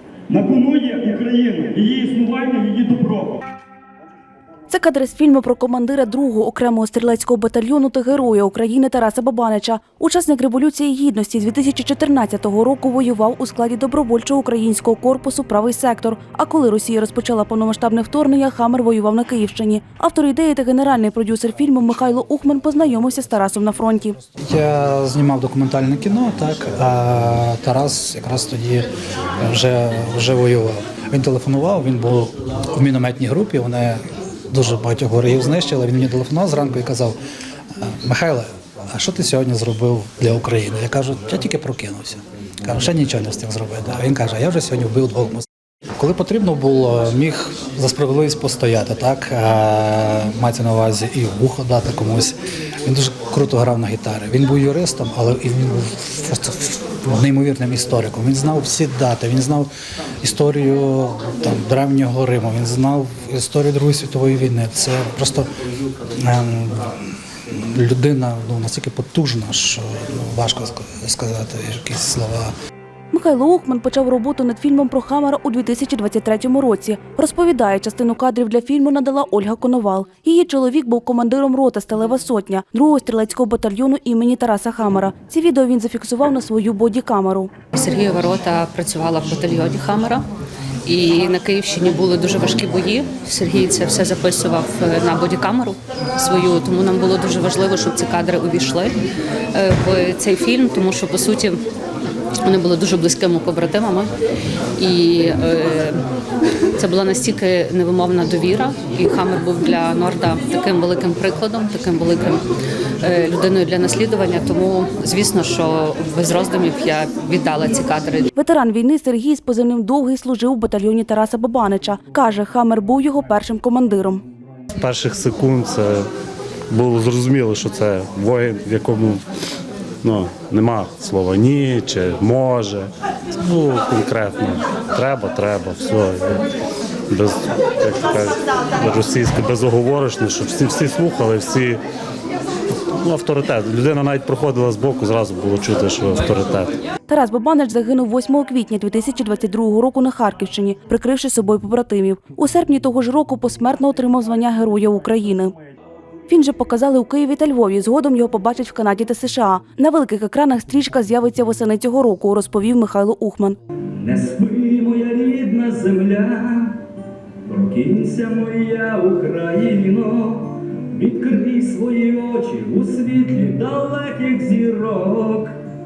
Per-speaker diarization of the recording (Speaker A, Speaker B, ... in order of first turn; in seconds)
Speaker A: 0.3-3.4, 163.9-166.8, 167.4-175.6
Speaker B: 4.7-24.2, 73.1-87.5, 118.3-124.2, 147.1-155.5, 156.3-163.6
Speaker C: 24.3-37.2, 37.8-59.7, 60.2-65.5, 66.1-67.0, 67.5-72.5
Speaker D: 87.7-90.2, 90.8-99.0, 99.5-101.6, 102.4-104.1, 104.8-106.0, 106.8-112.4, 113.0-118.3
Speaker E: 124.8-126.1, 126.7-129.2, 130.0-136.4, 137.1-141.8, 142.9-146.7